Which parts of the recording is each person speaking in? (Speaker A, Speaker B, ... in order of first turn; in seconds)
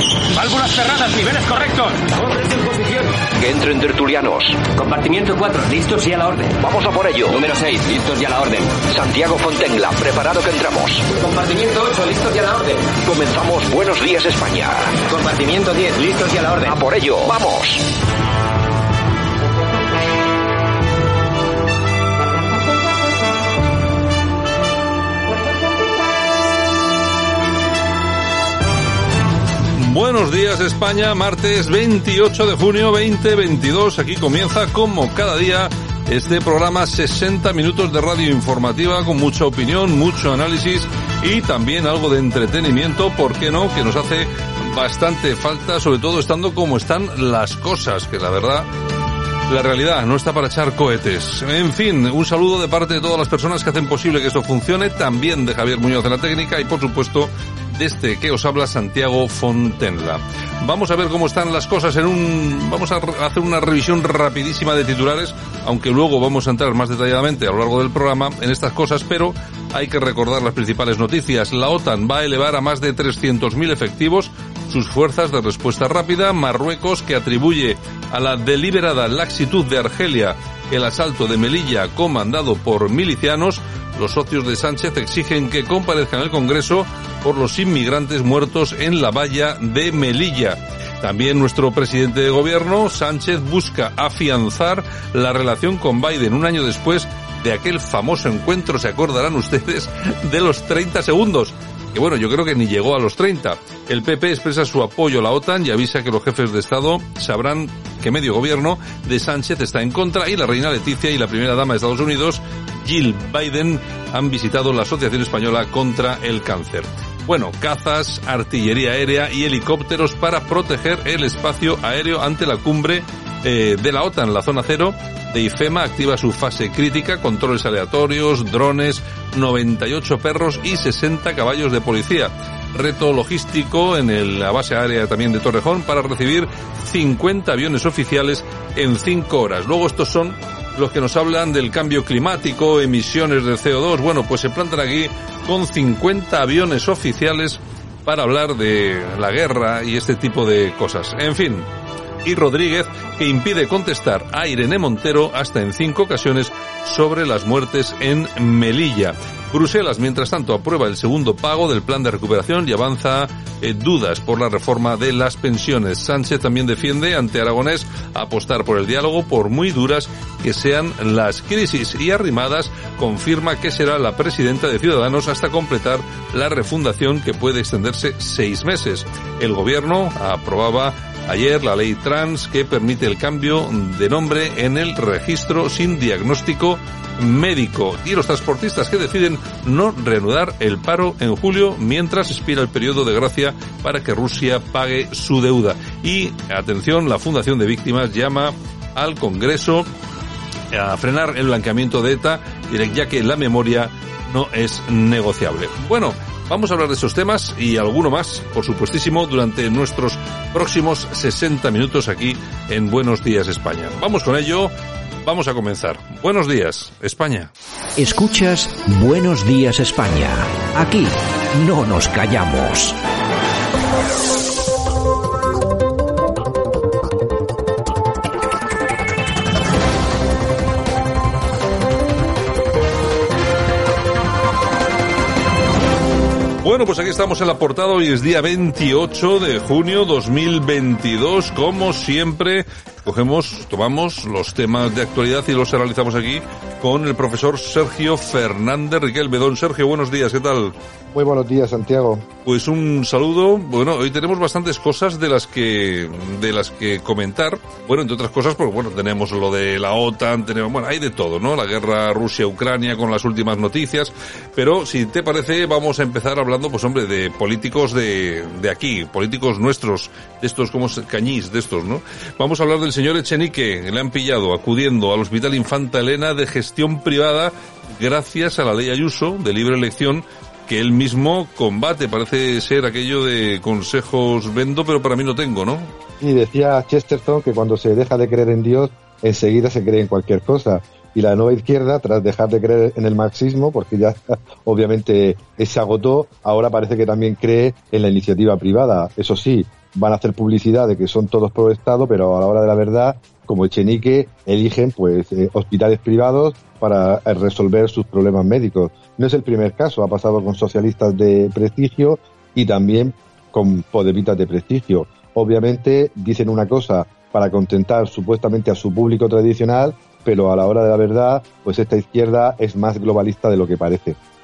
Speaker A: 0.3-3.2, 4.7-6.6, 7.3-8.7, 11.1-12.9, 15.1-16.8
Speaker B: 3.4-4.7, 6.5-7.6, 8.8-11.1, 12.9-15.0, 16.6-17.8
Speaker C: 29.7-48.7, 49.5-151.7, 152.2-199.9, 200.7-214.7, 215.2-217.5, 236.6-250.7, 252.4-285.9
Speaker D: 218.0-223.0
Speaker E: 251.1-252.2, 286.2-324.2